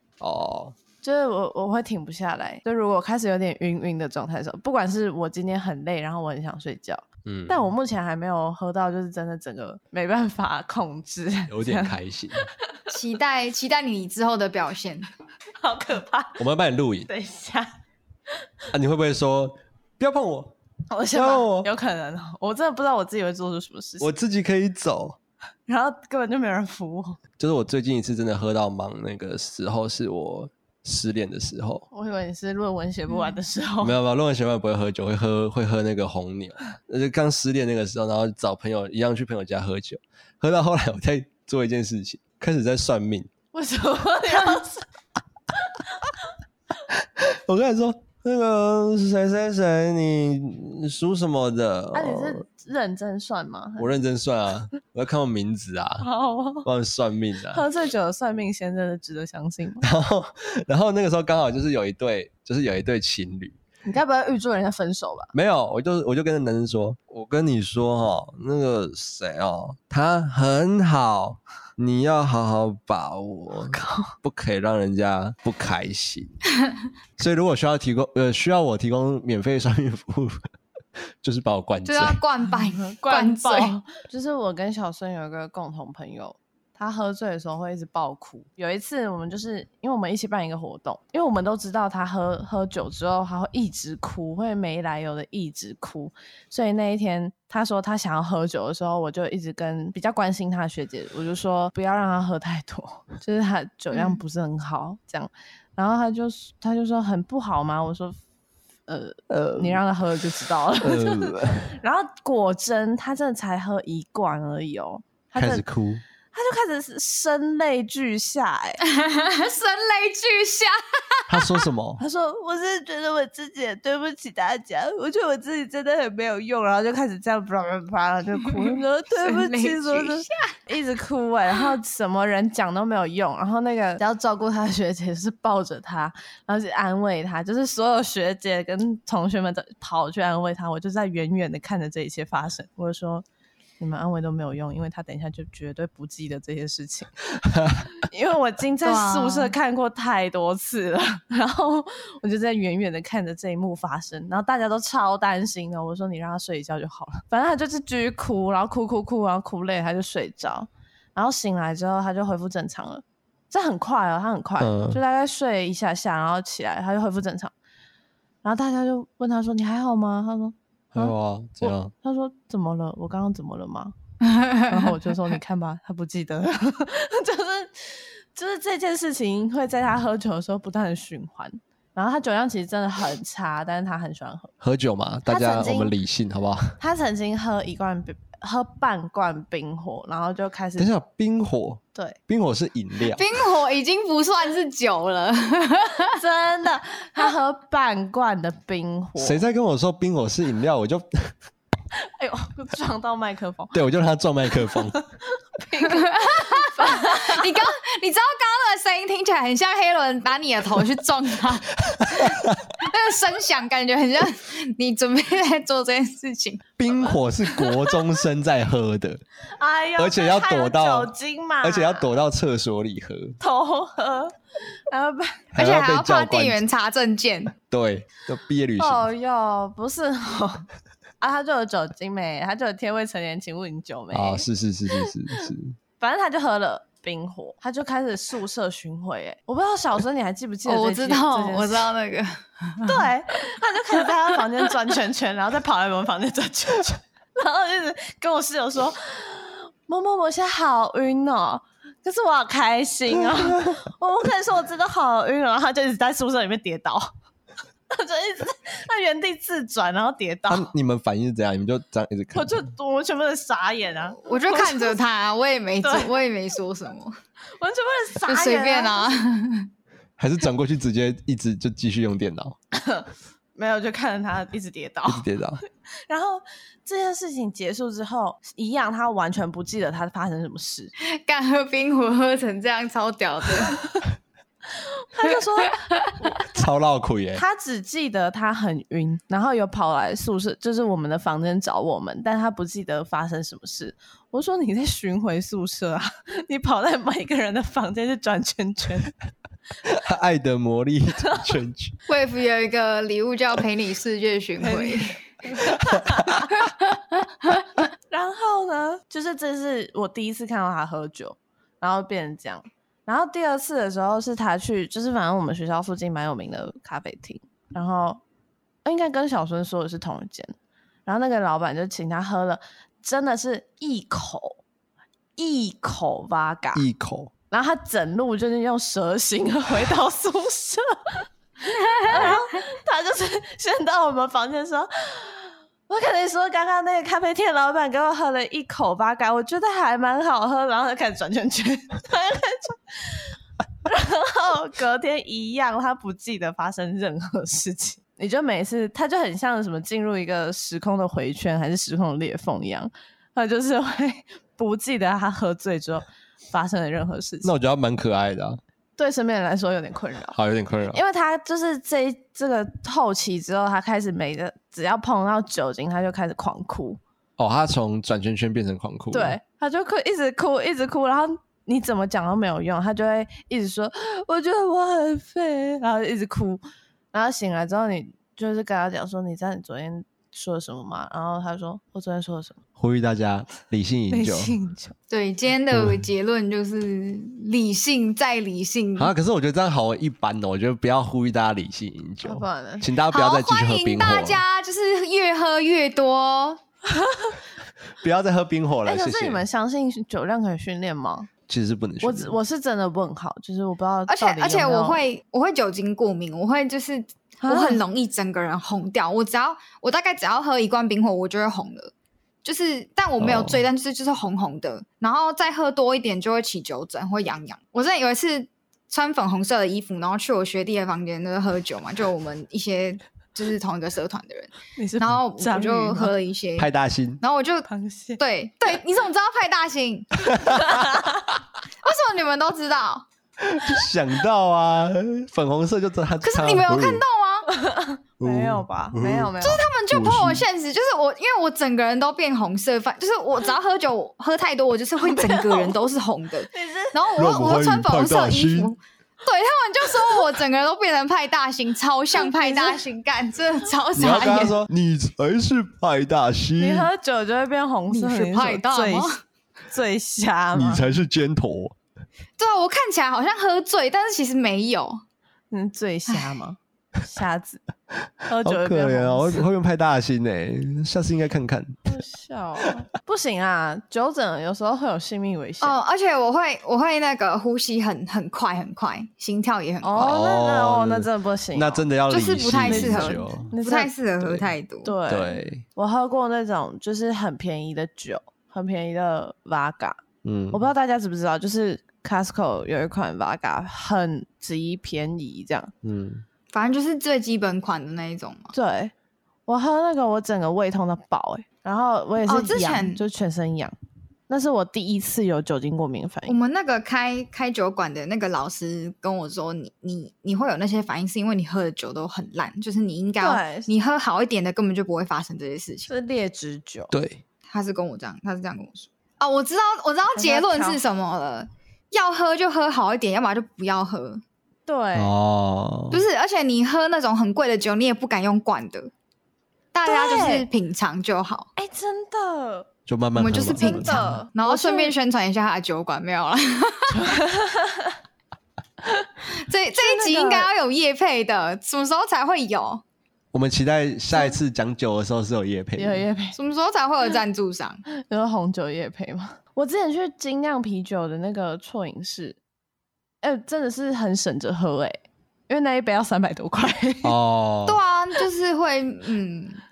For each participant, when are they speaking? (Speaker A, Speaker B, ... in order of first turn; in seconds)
Speaker A: 0.2-0.8, 7.3-7.7, 11.5-12.5, 16.4-17.1, 18.7-20.5, 21.1-21.7, 24.0-25.2, 27.4-31.9, 33.8-43.3, 46.9-52.4, 53.8-56.1, 56.6-57.7, 59.8-63.6, 65.3-76.4, 77.2-80.5, 81.2-82.2, 109.3-109.8, 110.8-111.8, 115.4-116.0, 121.3-122.0, 147.5-147.8, 164.6-165.0, 170.9-171.9, 184.6-186.8, 190.8-193.2, 199.2-201.3, 203.7-205.0, 211.9-212.6, 216.8-219.2, 220.0-221.1, 221.6-223.4, 225.5-226.6, 227.7-229.0, 234.1-235.8, 260.5-262.6, 270.2-272.6, 275.1-275.6, 286.5-287.4, 299.8-301.9, 326.8-327.3, 357.4-358.6, 360.3-361.0, 367.4-369.4, 382.8-384.6, 385.7-386.0, 389.0-394.4, 398.0-399.4, 401.5-402.4, 413.2-413.6, 426.6-427.2, 430.4-430.8, 433.4-437.0, 438.2-440.4, 447.1-448.7, 454.0-456.9, 460.5-461.8, 468.4-471.9, 480.0-483.5, 484.2-484.5, 485.1-485.6, 490.2-490.6, 495.8-496.2, 516.9-517.2, 524.9-526.0, 532.9-534.2, 543.3-546.0, 557.0-557.8
Speaker B: 1.0-12.0, 15.6-16.4, 17.1-17.7, 20.9-24.1, 25.7-27.2, 31.9-34.0, 43.5-44.9, 51.9-53.9, 56.0-56.7, 57.5-59.9, 63.9-65.3, 73.6-74.2, 82.6-108.2, 108.9-115.7, 116.3-118.8, 122.0-143.2, 143.8-147.1, 148.0-167.5, 168.4-173.9, 174.6-184.5, 185.3-185.9, 186.8-190.9, 196.1-199.4, 202.0-203.8, 204.6-207.7, 219.6-222.1, 223.4-224.4, 224.9-225.4, 228.8-230.7, 231.2-234.5, 236.0-241.9, 242.8-257.1, 257.9-260.7, 262.3-265.0, 265.8-266.2, 267.6-269.1, 272.7-275.3, 276.1-280.9, 284.7-286.4, 287.4-299.1, 304.6-306.5, 308.1-318.2, 318.9-320.6, 321.1-324.6, 325.4-326.9, 327.5-357.5, 359.0-360.4, 360.9-367.0, 369.1-376.6, 377.1-382.6, 384.1-384.9, 392.2-392.9, 397.0-397.3, 398.9-401.3, 402.0-405.0, 407.4-407.8, 424.8-426.1, 427.7-428.2, 437.5-439.6, 445.0-445.8, 446.5-447.0, 452.2-452.8, 456.6-459.1, 459.7-460.9, 465.5-467.6, 468.3-469.5, 471.9-475.8, 479.8-481.9, 482.7-483.9, 484.9-490.0, 490.5-495.7, 498.5-498.9, 499.5-503.7, 504.3-506.4, 513.2-513.7, 515.9-516.9, 520.1-520.8, 524.7-525.1, 529.9-530.5, 531.6-532.7, 533.5-535.0, 536.9-538.0, 538.8-539.1, 539.8-540.5, 545.8-546.4, 547.9-552.4, 553.2-555.0, 555.5-557.2
Speaker C: 12.9-15.1, 81.8-83.7, 118.8-121.6, 129.2-130.5, 148.8-149.6, 174.2-174.8, 193.1-196.2, 205.8-216.6, 225.6-227.5, 240.7-243.4, 264.3-267.2, 268.2-269.7, 281.0-283.8, 302.1-305.7, 306.5-307.1, 331.9-332.2, 385.1-389.1, 393.1-396.6, 404.1-411.9, 412.4-426.7, 427.2-430.6, 431.8-433.1, 436.2-437.5, 439.4-454.6, 457.9-459.2, 462.4-465.0, 475.6-480.1, 482.1-484.9, 496.5-498.5, 502.3-503.0, 506.3-515.9, 517.5-524.2, 525.9-528.9, 529.7-531.5, 533.2-537.1, 539.3-542.8, 546.3-547.8, 557.7-559.6